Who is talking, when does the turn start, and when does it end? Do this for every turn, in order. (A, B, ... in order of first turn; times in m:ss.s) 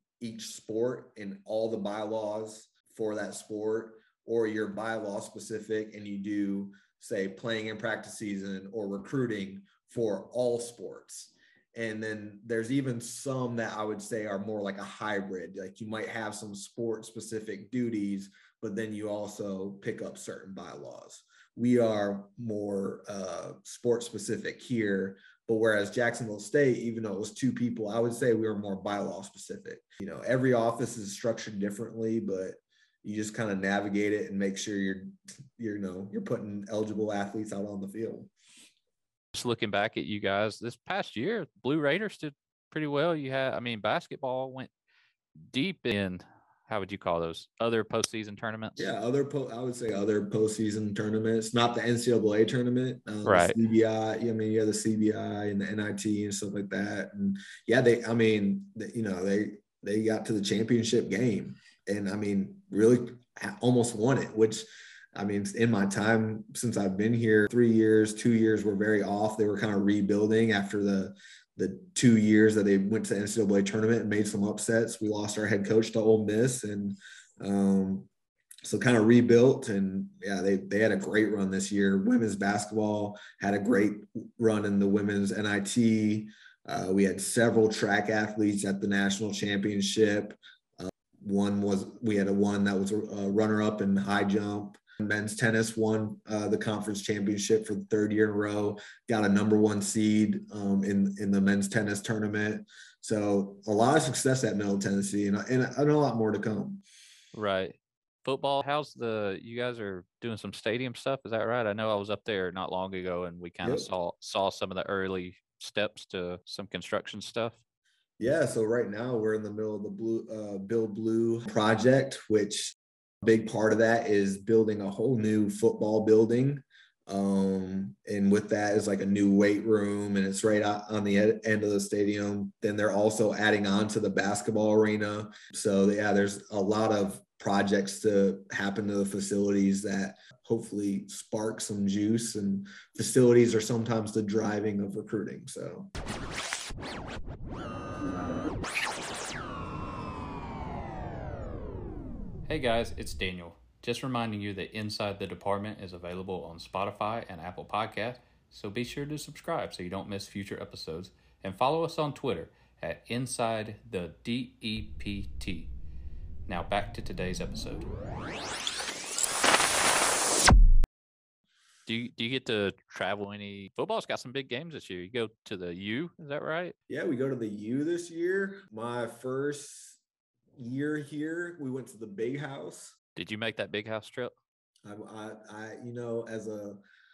0:00.2-0:38.3 A
0:39.3-0:44.7 B
0:45.5-0:48.9 B
0:48.8-1:18.1 A
0:53.2-0:53.6 B
1:18.6-1:46.8 A
1:47.3-1:57.6 B
1:53.6-1:53.9 A
1:58.2-2:25.9 A
2:32.5-2:45.7 B
2:46.5-2:47.9 B
2:51.9-2:56.8 B
2:56.9-3:00.0 A
3:00.6-3:03.0 A
3:03.2-3:04.3 B
3:04.8-3:06.8 A